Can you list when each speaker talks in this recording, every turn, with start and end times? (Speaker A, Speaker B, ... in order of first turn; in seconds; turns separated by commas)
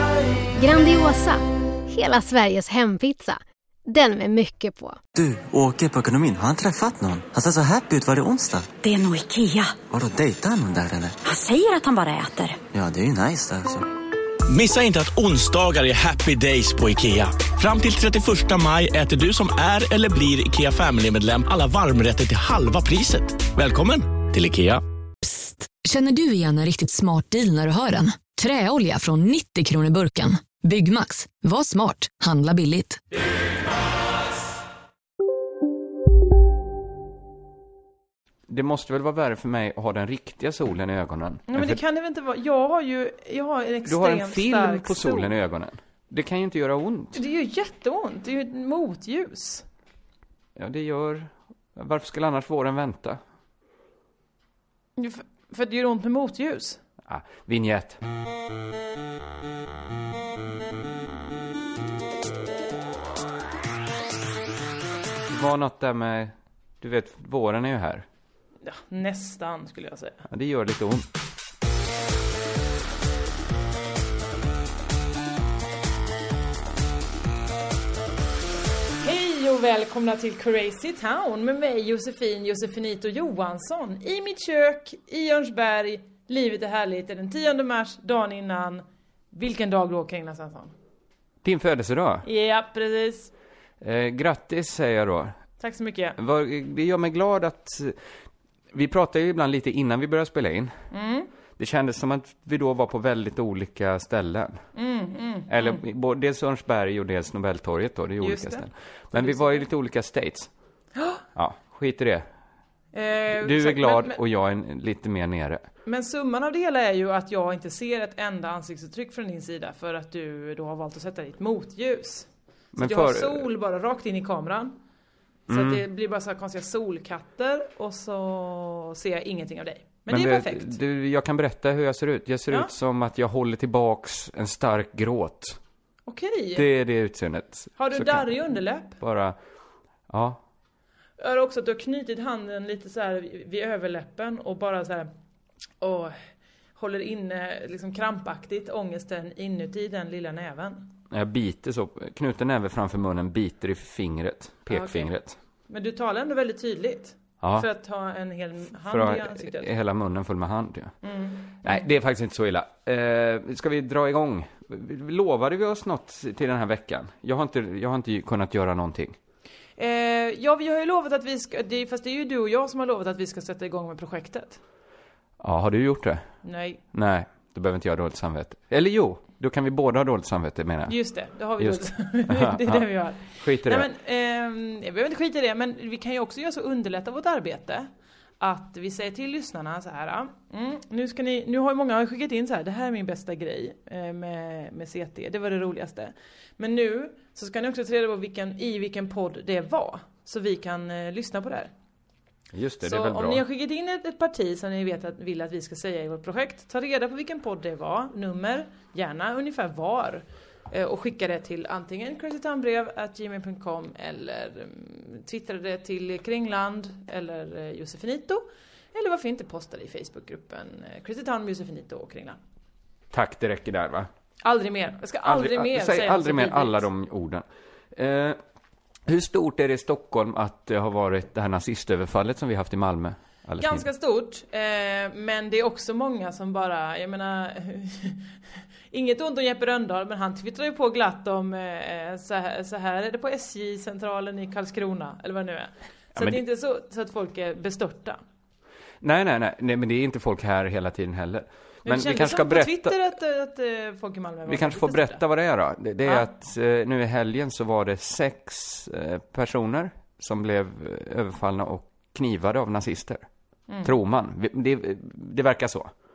Speaker A: 0.6-5.0, Speaker B: 5.1-8.7, Speaker C: 8.8-9.8, Speaker B: 9.9-11.2, Speaker C: 11.2-12.6, Speaker B: 12.7-13.8, Speaker D: 14.5-24.8, Speaker E: 25.2-33.0, Speaker F: 38.5-41.8, Speaker G: 41.5-45.3, Speaker F: 43.8-47.2, Speaker G: 47.1-49.6, Speaker F: 50.5-53.2, Speaker G: 55.0-56.8, Speaker F: 57.0-58.0, Speaker F: 65.3-68.0, Speaker G: 68.6-70.2, Speaker F: 70.3-71.1, Speaker G: 79.0-90.7, Speaker F: 91.4-92.2, Speaker G: 92.2-93.3, Speaker F: 93.8-95.4, Speaker G: 95.6-96.2, Speaker F: 96.2-98.0, Speaker F: 98.7-100.8, Speaker G: 100.9-101.3, Speaker F: 101.6-104.6, Speaker G: 104.7-105.8, Speaker F: 105.5-110.5, Speaker G: 108.2-109.7, Speaker G: 111.0-111.2, Speaker F: 111.3-112.3, Speaker G: 112.9-114.2, Speaker F: 113.3-115.7, Speaker G: 115.8-124.8, Speaker F: 122.7-123.5, Speaker F: 125.5-125.8, Speaker G: 125.5-130.8, Speaker F: 130.1-135.6, Speaker G: 136.1-136.7, Speaker F: 136.5-138.4, Speaker G: 137.8-139.0, Speaker F: 139.0-139.4, Speaker F: 140.1-140.4, Speaker G: 141.2-145.1, Speaker G: 145.8-146.2, Speaker G: 146.8-150.9, Speaker F: 151.1-155.4, Speaker G: 154.7-155.1, Speaker G: 155.7-159.7, Speaker F: 157.4-157.7, Speaker F: 158.8-160.9, Speaker G: 161.0-161.8, Speaker F: 161.6-169.2, Speaker G: 169.8-174.6, Speaker F: 175.4-176.2, Speaker G: 176.4-176.8, Speaker F: 176.9-180.9, Speaker G: 180.9-187.9, Speaker F: 181.6-183.9, Speaker G: 188.4-201.7, Speaker F: 202.5-203.4, Speaker G: 202.8-222.4, Speaker F: 223.1-224.1, Speaker G: 224.4-226.9, Speaker F: 225.2-228.4, Speaker F: 229.1-233.8, Speaker G: 233.6-238.3, Speaker G: 238.9-248.2, Speaker F: 246.2-246.4, Speaker F: 249.0-253.0, Speaker G: 251.8-255.2, Speaker F: 254.5-263.2, Speaker G: 263.7-263.9, Speaker F: 263.8-265.9